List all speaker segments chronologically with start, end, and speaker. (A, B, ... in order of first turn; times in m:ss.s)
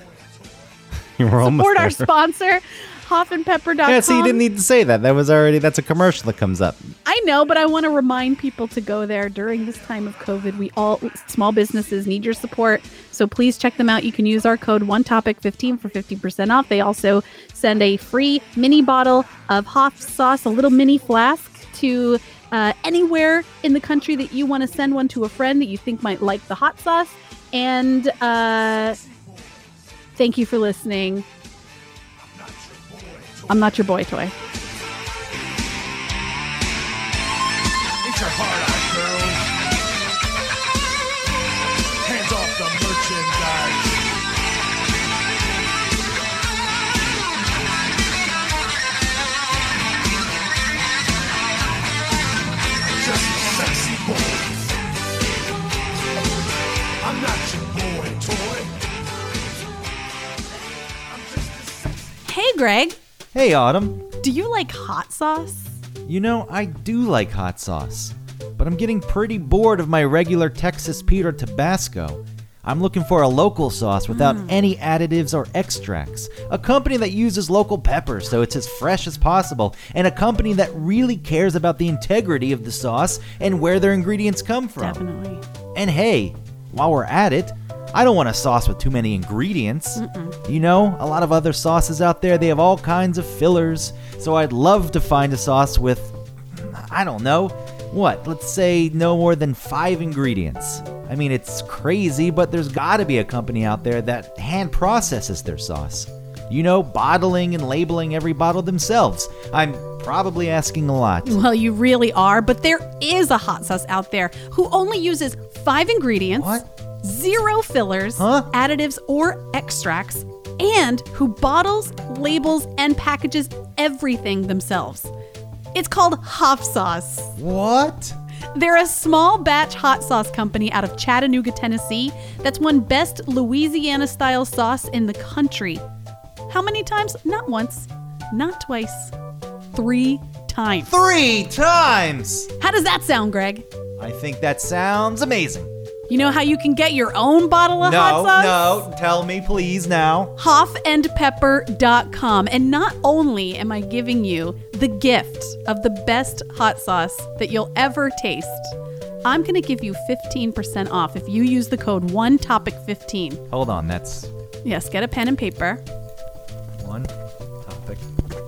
0:01.2-0:02.1 A
0:01.4-0:04.4 B
0:03.8-0:06.9 A
0:07.0-0:29.0 B
0:29.1-0:29.5 C
0:30.2-0:31.2 B
0:32.2-0:33.6 C
0:33.5-0:34.3 B
0:38.0-0:39.5 C
0:42.0-0:44.0 C
0:52.7-0:54.7 C
0:57.0-0:58.8 C
1:01.1-1:02.1 C
1:02.2-1:03.0 B
1:03.3-1:04.0 A
1:04.2-1:05.7 B
1:06.0-1:25.0 A
1:14.1-1:14.6 B
1:24.8-1:25.4 B
1:25.7-1:51.4 A
1:30.0-1:30.4 B
1:51.2-2:05.1 B
1:56.4-1:56.7 A
1:58.2-1:58.5 A
2:05.7-2:07.3 B
2:07.4-2:08.2 A
2:08.5-2:15.8 B
2:16.5-2:19.1 B
2:19.7-2:20.9 B
2:20.8-2:22.5 A
2:22.6-2:23.6 B
2:24.0-2:25.7 A
2:26.1-2:28.8 B
2:27.8-2:30.3 A
2:30.4-2:43.4 B
2:43.5-2:44.3 A
2:44.6-2:45.8 B
2:46.8-2:47.1 A
2:47.6-2:48.0 A